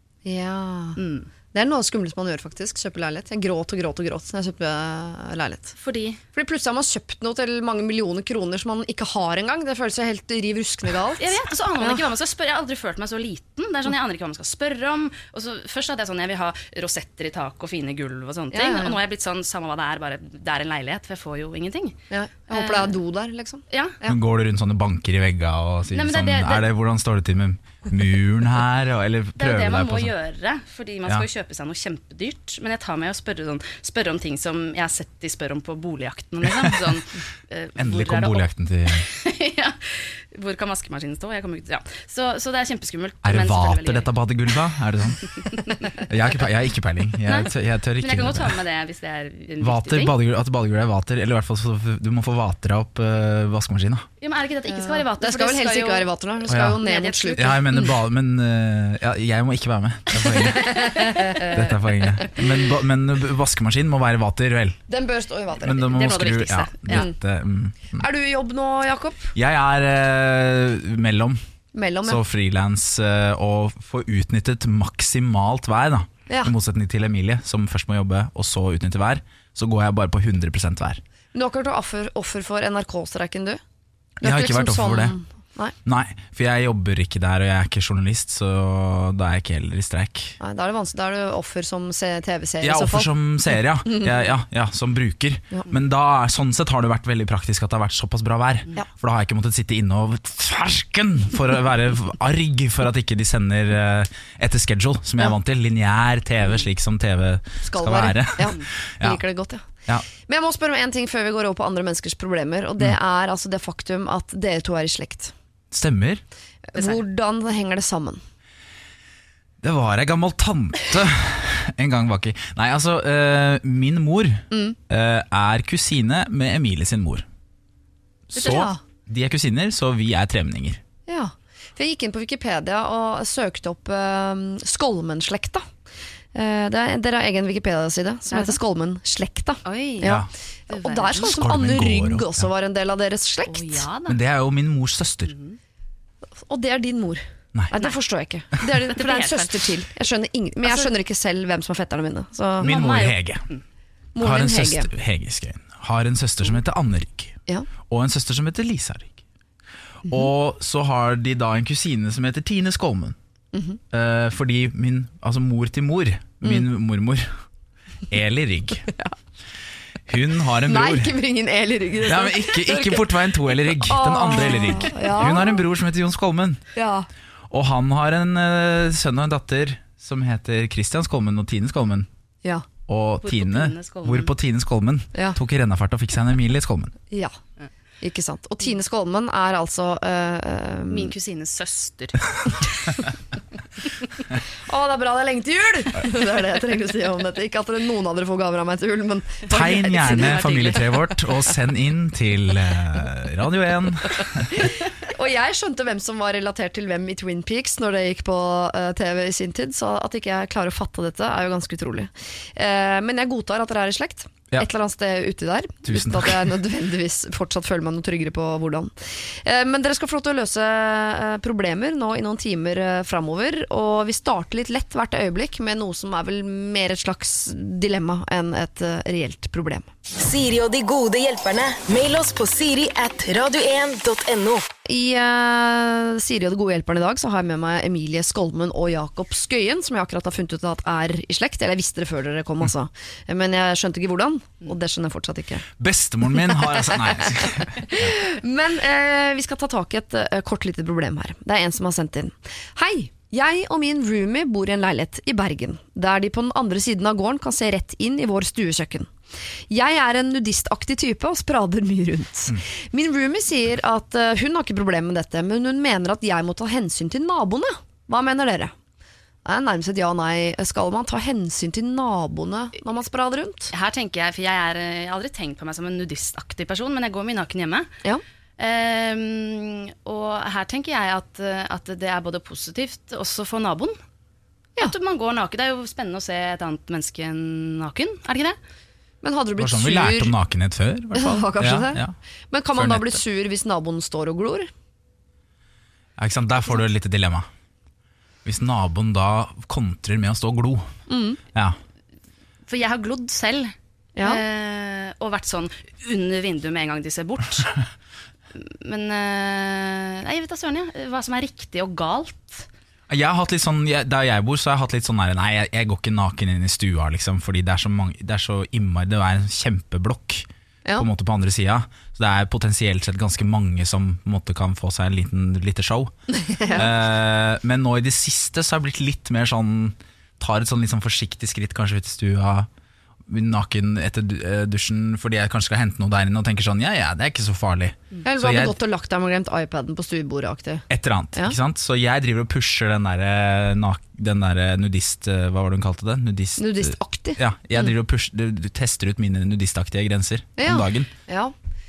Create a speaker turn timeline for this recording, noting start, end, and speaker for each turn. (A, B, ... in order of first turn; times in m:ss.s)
0:00.2-0:01.0 A
0:01.0-0:01.3 B
0:01.5-0:05.8 A
0:05.8-0:06.2 B
0:06.3-0:12.1 A
0:11.2-0:22.0 B
0:18.5-0:19.0 A
0:22.1-0:24.2 A
0:22.5-0:23.0 B
0:23.7-0:24.0 B
0:24.0-0:30.1 C
0:25.9-0:26.7 B
0:29.4-0:44.1 B
0:36.5-0:36.8 C
0:37.8-0:39.1 C
0:43.2-0:45.4 C
0:45.2-0:46.1 B
0:46.0-0:48.6 C
0:47.2-0:50.2 B
0:49.6-0:54.1 C
0:54.2-0:57.9 B
0:54.7-0:57.9 A
0:56.5-0:56.8 C
0:57.4-1:01.0 C
1:00.3-1:01.7 A
1:00.4-1:01.6 B
1:01.5-1:04.8 C
1:04.9-1:05.9 A
1:05.6-1:08.1 C
1:05.6-1:07.1 B
1:08.0-1:09.3 A
1:09.4-1:11.4 C
1:11.7-1:12.2 A
1:12.0-1:21.0 C
1:21.3-1:23.6 A
1:24.2-1:25.2 C
1:24.2-1:25.8 A
1:25.8-1:30.4 C
1:30.4-1:33.1 A
1:32.6-1:49.2 C
1:47.6-1:55.3 A
1:55.7-1:56.2 C
1:56.7-1:58.2 A
1:56.8-1:57.0 B
1:59.6-2:07.3 C
2:04.5-2:04.8 A
2:08.3-2:10.8 C
2:08.4-2:08.8 A
2:08.4-2:08.7 B
2:11.1-2:15.7 A
2:16.3-2:23.9 A
2:18.3-2:18.6 B
2:19.6-2:21.4 B
2:20.0-2:20.3 C
2:21.2-2:22.5 C
2:23.5-2:24.2 B
2:24.1-2:25.3 C
2:25.3-2:25.6 B
2:26.4-2:32.8 A
2:27.7-2:28.0 B
2:28.8-2:29.7 B
2:30.6-2:30.9 B
2:32.6-2:33.6 B
2:32.6-2:33.5 C
2:34.2-2:34.9 A
2:34.2-2:39.2 C
2:40.0-2:43.2 C
2:43.5-2:43.8 A
2:43.9-2:47.3 C
2:48.1-2:48.9 C
2:48.9-2:49.1 A
2:50.1-2:51.1 C
2:50.7-2:53.1 A
2:52.0-2:56.6 C
2:53.7-2:55.6 A
2:56.8-2:57.1 A
2:57.5-3:02.1 C
3:02.9-3:07.0 C
3:03.2-3:04.3 B
3:08.0-3:11.1 A
3:10.9-3:12.7 B
3:14.7-3:20.5 A
3:19.5-3:24.6 C
3:19.8-3:21.2 B
3:24.5-3:49.9 A
3:35.8-3:36.6 C
3:50.2-3:54.6 D
3:54.9-4:05.7 A
4:05.8-4:08.2 C
4:06.4-4:19.1 A
4:19.7-4:28.7 A
4:29.4-4:33.7 A
4:33.7-4:37.9 B
4:38.6-4:44.0 B
4:44.8-4:48.6 B
4:49.2-4:50.3 A
4:49.6-4:52.1 C
4:51.2-4:54.7 A
4:52.7-4:53.2 C
4:56.2-4:57.5 C
4:58.4-5:00.9 C
5:01.1-5:01.4 A
5:02.7-5:07.8 B
5:08.5-5:12.7 B
5:13.1-5:26.1 C
5:26.4-5:26.9 A
5:26.8-5:32.7 C
5:33.3-5:38.8 C
5:38.2-5:41.6 A
5:40.9-5:51.1 C
5:46.6-5:47.4 A
5:50.6-5:51.5 A